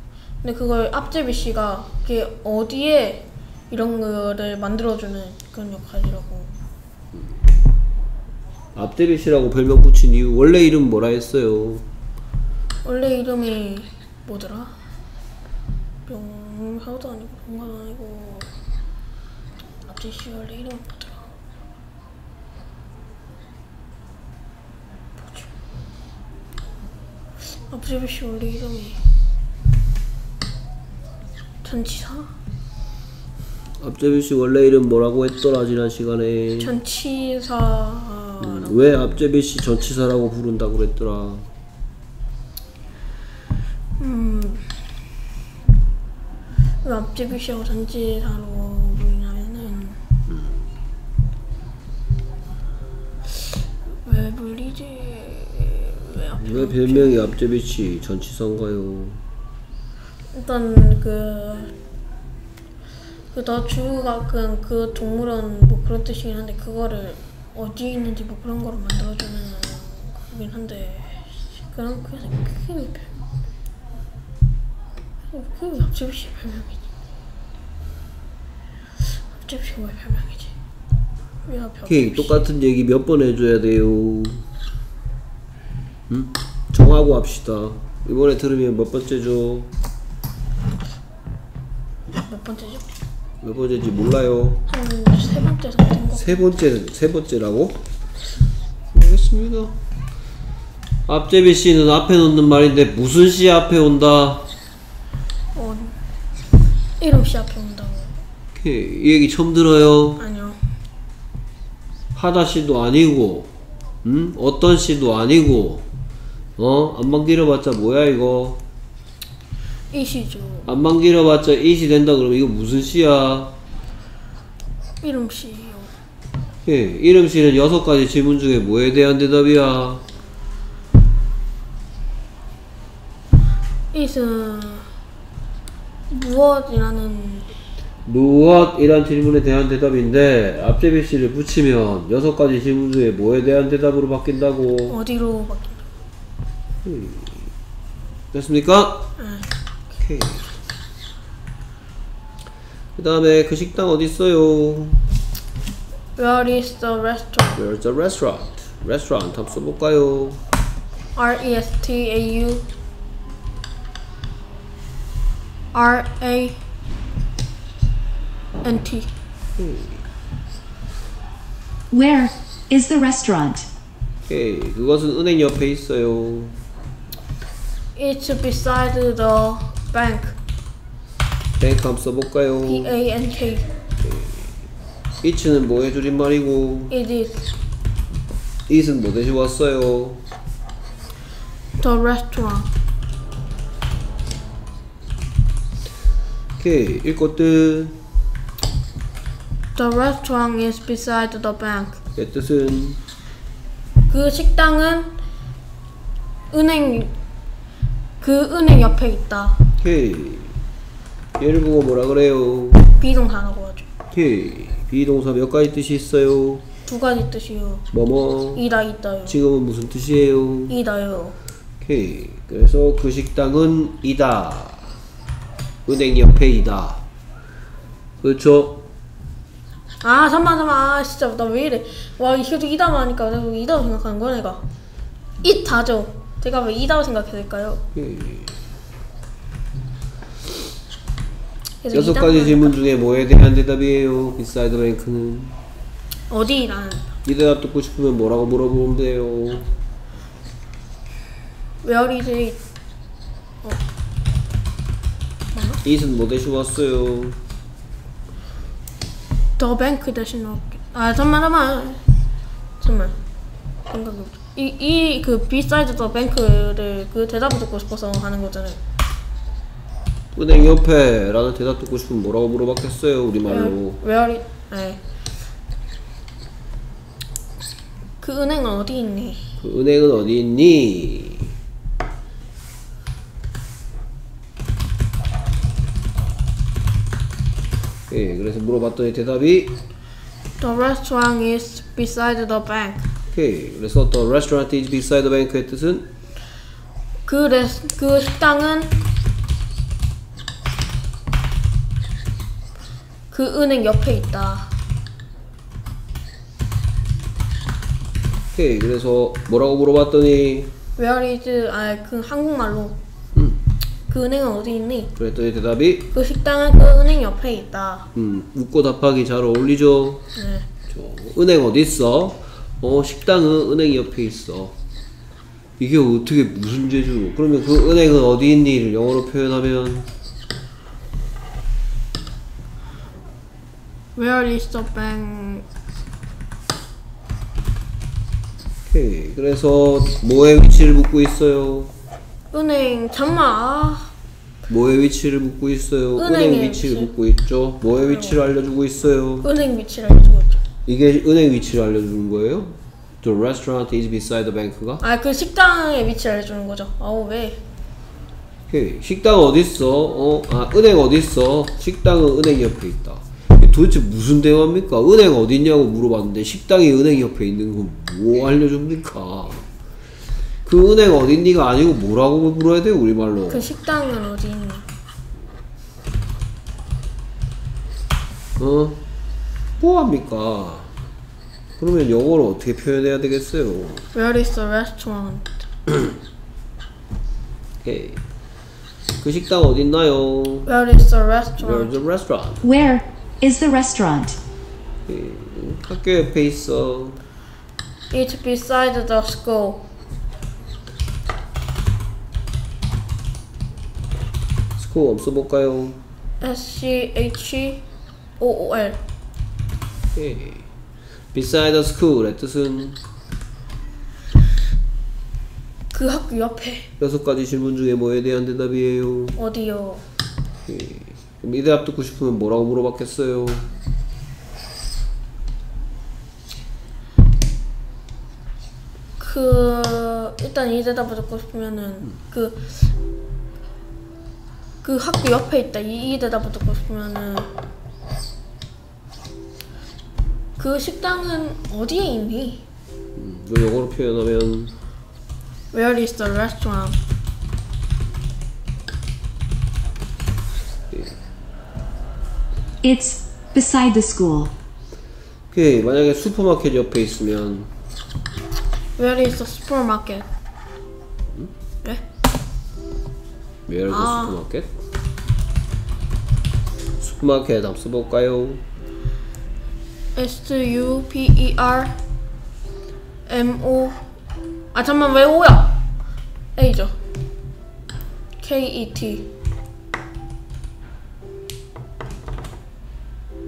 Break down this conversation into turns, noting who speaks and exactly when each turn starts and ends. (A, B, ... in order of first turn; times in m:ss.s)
0:00.4-0:06.5 A
0:08.7-0:11.8 B
0:12.8-0:14.8 A
0:16.0-0:18.5 A
0:19.8-0:21.3 A
0:25.2-0:25.5 A
0:27.6-0:29.0 A
0:31.6-0:32.3 A
0:33.8-0:36.7 B
0:36.6-0:38.8 A
0:38.4-0:41.5 B
0:44.0-0:44.8 A
0:46.8-0:50.0 A
0:54.0-0:57.4 A
0:56.4-0:59.2 B
1:00.3-1:01.7 A
1:03.3-1:13.1 A
1:15.3-1:16.8 A
1:19.2-1:20.5 A
1:21.4-1:22.4 A
1:21.9-1:24.4 B
1:26.1-1:29.7 B
1:32.2-1:32.9 A
1:33.4-1:34.6 B
1:34.7-1:36.5 A
1:36.1-1:37.8 B
1:38.9-1:39.7 B
1:41.0-1:44.4 B
1:45.5-1:46.0 A
1:47.0-1:48.1 A
1:48.5-1:50.2 B
1:50.2-1:50.6 A
1:52.1-1:53.5 B
1:54.0-1:55.8 B
1:56.6-1:58.6 B
1:59.9-2:00.7 A
2:00.6-2:03.5 B
2:05.0-2:05.9 A
2:06.6-2:10.0 B
2:13.9-2:14.9 A
2:16.1-2:17.5 A
2:18.0-2:25.0 B
2:24.9-2:25.8 A
2:26.8-2:27.5 B
2:28.3-2:29.1 B
2:29.2-2:29.5 A
2:30.0-2:30.6 B
2:33.0-2:35.0 B
2:36.2-2:37.6 A
2:37.5-2:40.4 B
2:41.1-2:42.7 A
2:45.7-2:46.6 A
2:48.6-2:49.1 A
2:49.6-2:50.0 B
2:51.9-2:53.7 C
2:54.2-2:56.6 B
2:57.9-3:00.4 A
3:01.6-3:02.9 B
3:02.6-3:03.7 A
3:04.0-3:04.4 B
3:05.2-3:06.9 B
3:06.9-3:07.5 A
3:08.7-3:10.2 B
3:11.8-3:12.7 A
3:16.6-3:18.0 B
3:19.7-3:22.0 A
3:22.1-3:23.0 B
3:24.1-3:25.1 A
3:26.5-3:27.1 A
3:28.2-3:29.6 A
3:29.8-3:30.5 B
3:31.4-3:32.9 B
3:33.0-3:33.9 A
3:34.1-3:36.6 B
3:36.8-3:37.8 A
3:37.9-3:38.6 B
3:38.5-3:39.4 A
3:39.2-3:40.8 B
3:40.7-3:41.4 A
3:41.8-3:44.9 B
3:45.8-3:47.0 B
3:48.2-3:48.8 B
3:50.0-3:54.6 A
3:55.4-3:57.8 A
3:57.9-3:58.6 B
4:01.8-4:02.8 A
4:01.9-4:05.6 B
4:06.3-4:07.1 A
4:07.2-4:09.7 B
4:11.8-4:12.6 A
4:15.5-4:15.8 A
4:15.8-4:17.4 B
4:19.6-4:22.0 A
4:22.8-4:23.2 A
4:23.9-4:28.8 A
4:30.3-4:34.0 B
4:33.5-4:35.0 A
4:38.2-4:39.5 A
4:39.6-4:41.5 B
4:48.1-4:49.8 B
4:50.6-4:53.1 A
4:53.3-4:56.0 B
4:57.2-4:58.9 A
5:03.3-5:04.7 A
5:08.5-5:10.7 B
5:11.0-5:13.0 A
5:13.3-5:13.6 B
5:14.1-5:15.1 A
5:15.2-5:16.1 B
5:16.1-5:18.1 A
5:18.1-5:20.2 B
5:20.4-5:20.7 A
5:20.9-5:24.7 B
5:25.8-5:30.1 B
5:34.2-5:35.6 A
5:38.9-5:41.9 B
5:42.5-5:44.1 A
5:44.7-5:49.5 B
5:46.2-5:47.1 A
5:48.0-5:48.4 A
5:49.4-5:50.6 A
5:50.8-5:55.0 B
5:55.0-5:57.6 A
5:58.7-6:09.7 B
6:10.6-6:13.7 B
6:13.5-6:14.9 A
6:18.6-6:19.0 B
6:19.8-6:20.9 B
6:21.8-6:24.1 B
6:24.1-6:25.6 A
6:27.8-6:28.2 B
6:29.2-6:30.7 B
6:30.6-6:32.0 A
6:31.6-6:32.7 B
6:32.6-6:34.4 C
6:35.1-6:37.2 B
6:38.1-6:39.8 A
6:44.8-6:46.0 B
6:46.4-6:47.8 A
6:48.4-6:49.0 A
6:50.1-6:50.7 B
6:51.3-6:53.0 B
6:55.9-6:56.9 A
6:57.0-6:59.4 B
6:59.4-7:00.0 A
7:00.6-7:03.7 B
7:09.2-7:12.9 A
7:14.8-7:17.5 A
7:20.6-7:22.6 A
7:23.2-7:24.7 B
7:25.7-7:27.0 A
7:32.8-7:34.5 C
7:35.5-7:37.7 B
7:39.0-7:40.3 A
7:43.7-7:44.7 B
7:43.9-7:44.4 A
7:47.0-7:48.6 B
7:50.1-7:52.0 A
7:53.3-7:54.0 A
7:54.7-7:55.8 A
7:56.6-7:56.9 A
7:58.4-7:59.3 A